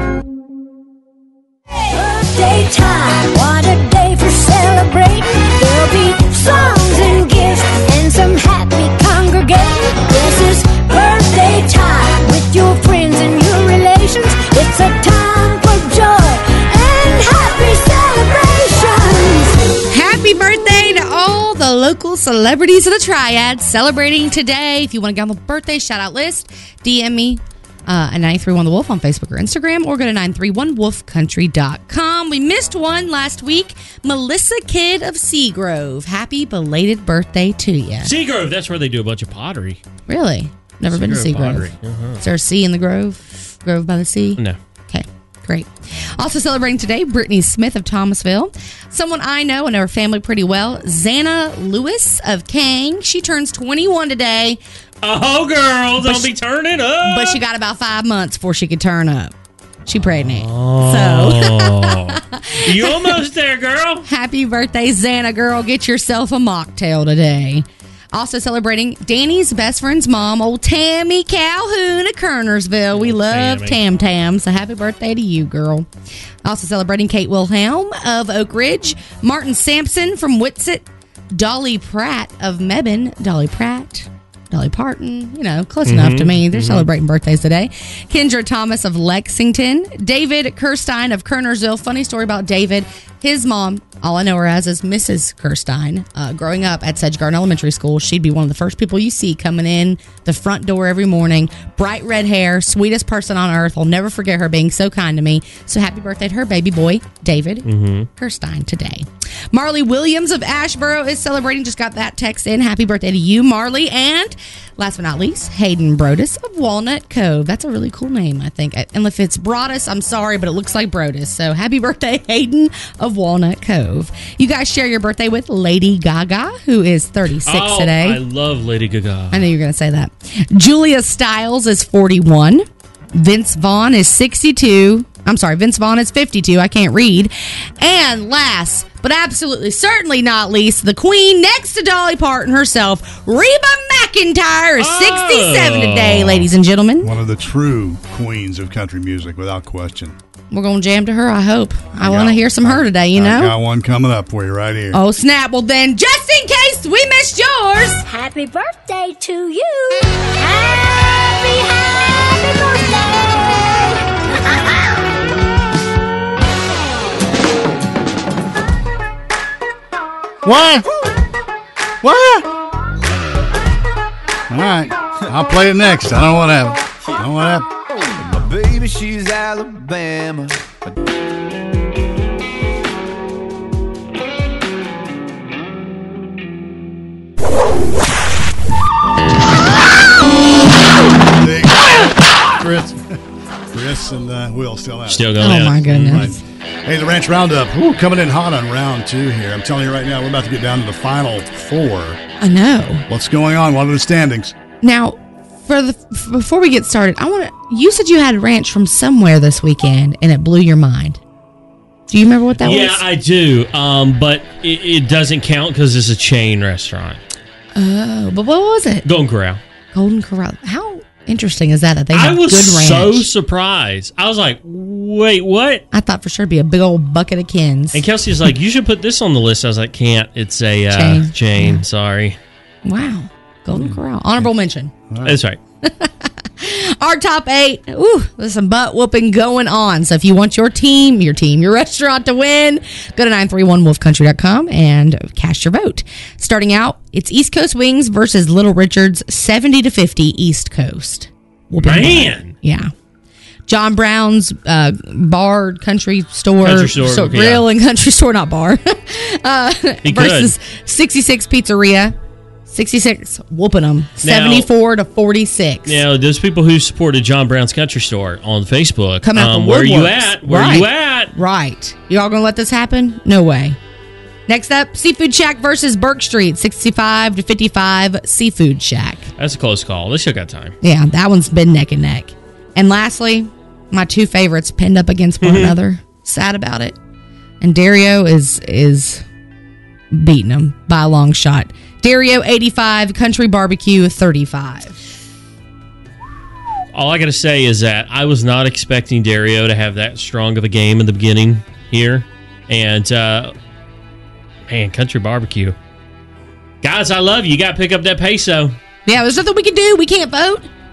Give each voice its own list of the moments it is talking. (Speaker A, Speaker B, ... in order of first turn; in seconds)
Speaker A: 1.9-19.6, 158.1-163.8
Speaker B: 19.9-38.1, 40.1-54.6, 56.0-56.3, 57.0-59.3, 59.9-63.2, 64.0-75.9, 76.4-128.2, 129.3-147.1, 150.5-153.6, 154.9-158.0, 195.4-196.4, 202.4-203.1, 204.8-211.2, 212.1-213.0, 217.8-219.1, 219.9-223.3, 225.9-228.0, 230.9-231.8, 232.8-234.9, 235.8-252.9, 253.7-262.1, 262.7-266.0, 269.2-273.8, 274.5-279.3, 280.8-287.0, 287.6-289.2, 290.1-295.0, 309.1-310.7
Speaker C: 38.0-39.8, 40.9-42.2, 55.0-57.4, 60.2-64.0, 72.9-73.8, 85.9-86.9, 107.7-108.1, 127.5-129.5, 144.8-146.5, 195.1-196.3, 212.6-217.2, 219.1-219.6, 222.1-225.8, 227.9-232.4, 235.2-235.6, 251.8-252.5, 256.6-257.7, 260.0-260.5, 264.2-264.7, 265.9-271.3, 279.4-280.8, 285.4-285.8, 296.9-303.5, 304.7-305.8, 306.8-308.8
Speaker D: 147.0-150.2, 152.0-155.0, 170.4-170.9, 172.0-172.5, 174.5-177.7, 191.3-202.2, 203.1-204.6, 235.1-235.4
Speaker E: 178.3-180.8